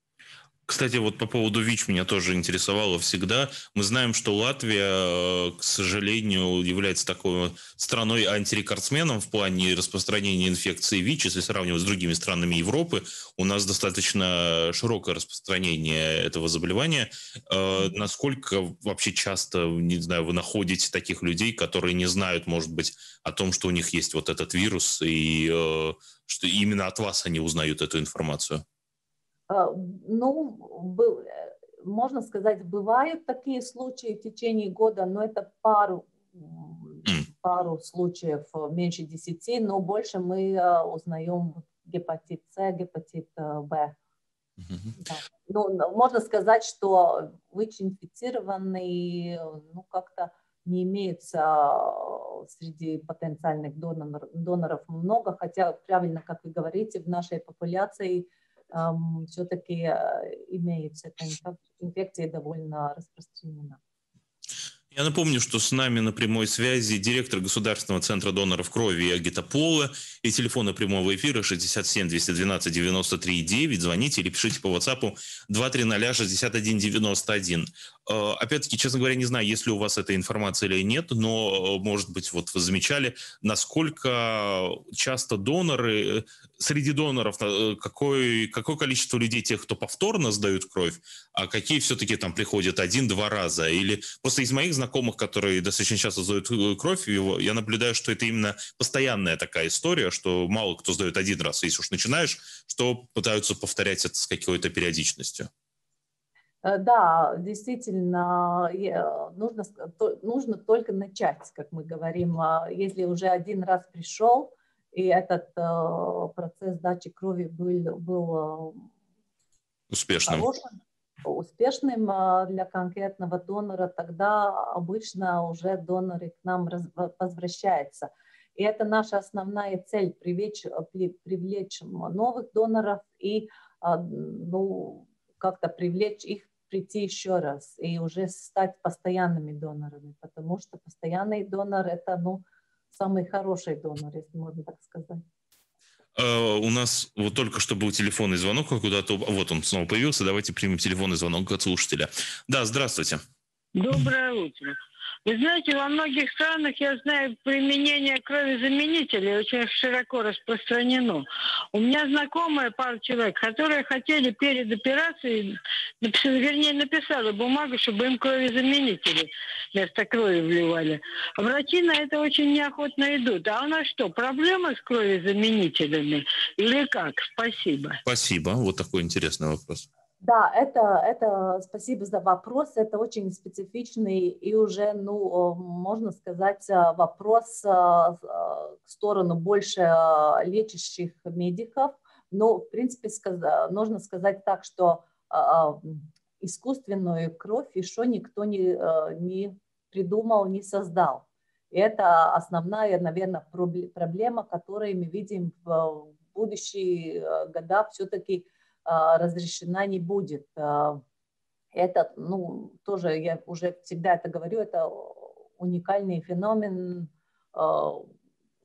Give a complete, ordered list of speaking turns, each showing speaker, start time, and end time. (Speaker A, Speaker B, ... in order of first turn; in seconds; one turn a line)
Speaker A: 0.7-28.6
Speaker B: 29.5-43.9
Speaker A: 44.7-44.9
Speaker B: 45.0-63.8
Speaker A: 64.9-105.5
Speaker B: 106.6-118.9
Speaker A: 119.9-120.5
Speaker B: 120.2-145.2
Speaker A: 146.2-153.2
Speaker C: 153.8-154.7
Speaker C: 155.2-178.0
Speaker A: 178.0-179.8
Speaker B: 180.2-211.0
Speaker B: 211.7-218.1